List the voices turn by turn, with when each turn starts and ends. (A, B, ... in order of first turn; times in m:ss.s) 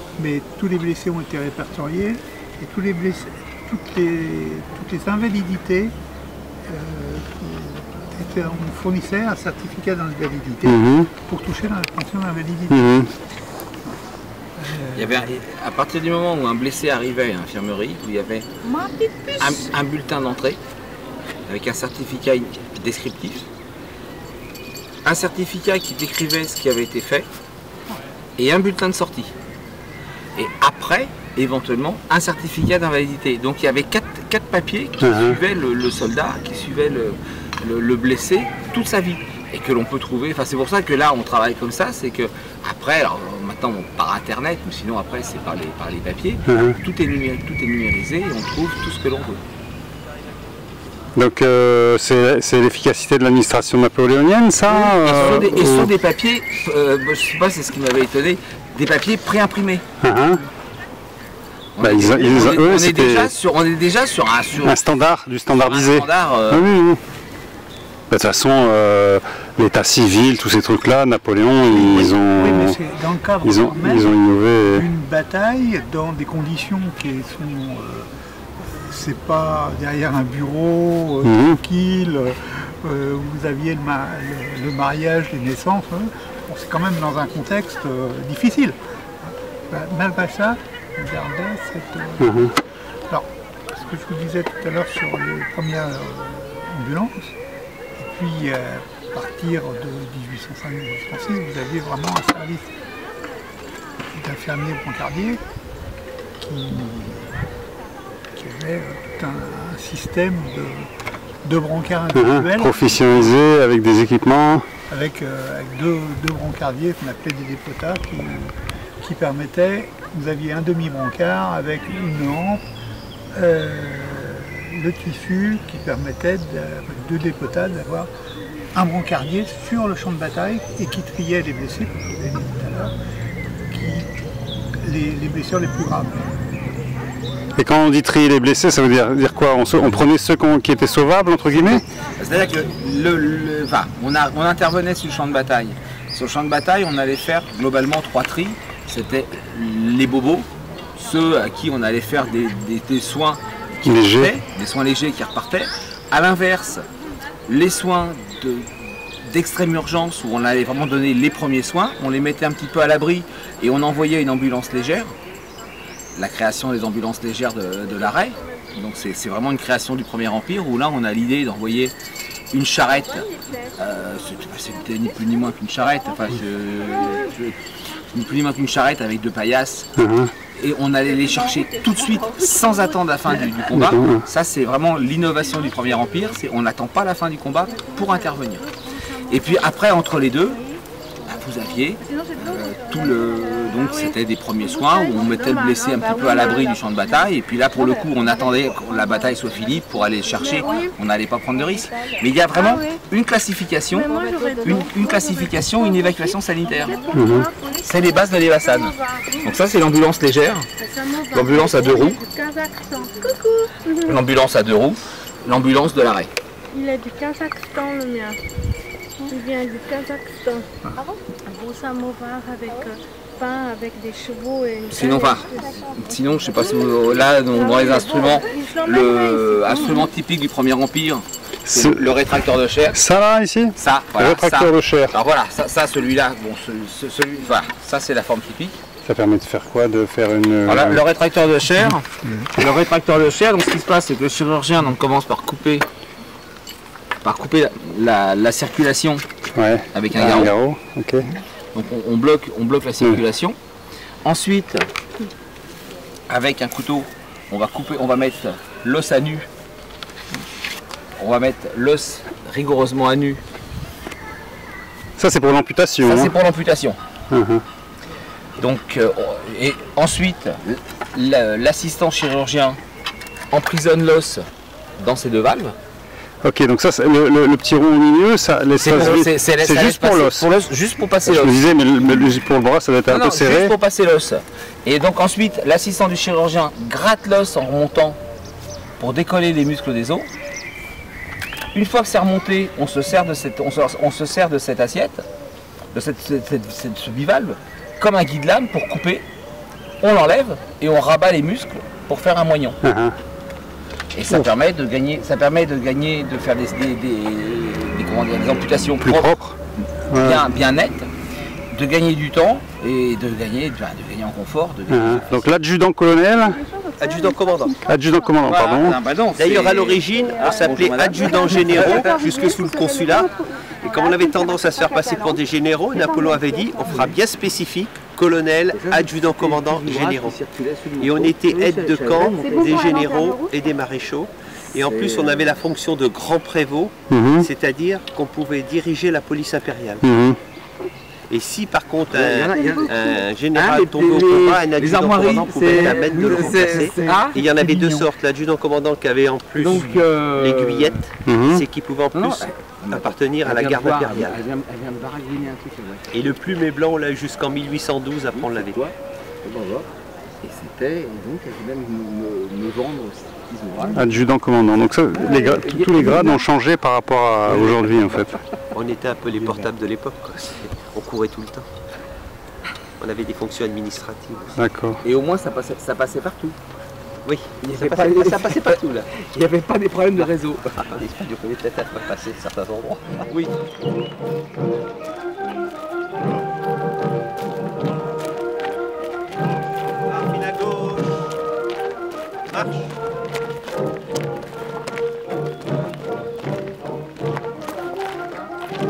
0:00.2-0:05.9 A
0:06.7-0:13.0 A
0:10.7-0:11.1 B
0:12.7-0:13.1 B
0:14.6-0:15.3 A
0:15.0-0:18.5 C
0:18.8-0:19.4 D
0:19.4-0:20.6 C
0:21.5-0:23.5 C
0:25.0-0:27.3 C
0:28.4-0:29.3 C
0:30.4-0:49.4 C
0:35.0-0:35.4 B
0:46.5-0:46.8 B
0:51.2-0:55.9 B
0:54.7-0:59.8 C
1:00.0-1:00.4 B
1:01.8-1:04.8 C
1:01.8-1:03.3 B
1:04.6-1:07.0 B
1:05.5-1:06.6 C
1:08.1-1:12.8 B
1:11.7-1:18.1 A
1:13.4-1:14.8 B
1:18.7-1:32.5 A
1:21.2-1:21.6 B
1:32.2-1:32.5 B
1:33.1-1:37.4 A
1:38.0-1:42.7 A
1:44.1-1:45.4 A
1:46.4-1:47.4 A
1:48.4-1:50.9 A
1:51.4-1:53.3 A
1:52.2-1:54.6 B
1:54.9-2:02.6 A
2:03.3-2:08.1 A
2:08.8-2:12.9 A
2:13.7-2:14.1 A
2:14.8-2:16.4 A
2:17.6-2:21.8 B
2:22.2-2:36.9 C
2:33.9-2:34.3 B
2:37.5-2:38.7 C
2:39.2-2:45.2 C
2:46.2-2:51.9 C
2:52.5-2:57.6 C
2:58.1-2:59.9 C
3:00.0-3:00.3 B
3:00.5-3:08.7 C
3:03.7-3:04.3 B
3:09.3-3:10.6 C
3:11.2-3:27.1 C
3:12.1-3:12.8 D
3:13.8-3:14.1 D
3:14.7-3:16.8 D
3:20.4-3:20.9 D
3:22.5-3:23.0 D
3:24.0-3:29.0 D
3:27.1-3:27.5 B
3:27.8-3:30.7 C
3:30.8-3:34.1 D
3:31.3-3:32.2 C
3:34.0-3:36.3 C
3:36.7-3:38.4 D
3:39.2-3:45.9 D
3:44.9-3:53.0 C
3:47.6-3:50.0 D
3:51.7-3:52.0 B
3:52.9-3:55.2 B
3:53.8-3:58.8 C
3:59.1-4:01.0 B
4:00.7-4:05.9 C
4:07.2-4:09.3 C
4:09.6-4:11.3 B
4:09.9-4:10.6 C
4:11.7-4:13.6 C
4:14.2-4:14.9 C
4:16.3-4:19.5 C
4:21.2-4:23.4 C
4:25.2-4:26.3 B
4:26.0-4:27.0 C
4:27.3-4:27.6 B
4:28.6-4:32.8 C
4:33.5-4:34.5 C
4:35.0-4:35.8 C
4:36.4-4:40.4 B
4:38.8-4:42.3 C
4:41.3-4:43.7 B
4:43.1-4:48.2 C
4:49.0-4:50.3 C
4:51.7-4:55.2 C
4:55.9-4:59.3 C
5:00.0-5:02.8 C
5:02.8-5:03.2 B
5:04.1-5:09.4 C
5:09.0-5:09.6 B
5:10.1-5:10.4 B
5:10.1-5:11.1 C
5:11.7-5:15.6 C
5:14.9-5:16.6 B
5:16.8-5:17.4 D
5:17.0-5:17.9 E
5:17.9-5:19.0 B
5:18.4-5:22.3 C
5:19.4-5:30.4 E
5:26.9-5:27.2 C
5:28.7-5:32.8 C
5:31.0-5:40.1 E
5:32.5-5:33.5 D
5:34.7-5:35.6 C
5:37.1-5:37.5 B
5:40.0-5:40.4 B
5:41.3-5:54.4 E
5:42.1-5:48.1 C
5:46.6-5:47.2 A
5:49.6-5:51.0 C
5:51.3-5:51.6 B
5:52.1-5:56.1 C
5:56.1-5:58.9 E
5:58.3-6:04.2 C
6:04.0-6:08.4 B
6:05.2-6:06.4 C
6:07.5-6:08.2 C
6:08.7-6:11.7 E
6:09.4-6:09.7 C
6:13.0-6:14.6 E
6:14.6-6:15.0 B
6:15.0-6:16.6 C
6:17.2-6:19.1 E
6:17.6-6:21.1 C
6:20.2-6:23.2 E
6:23.3-6:23.6 C
6:30.1-6:31.1 E
6:32.5-6:32.9 E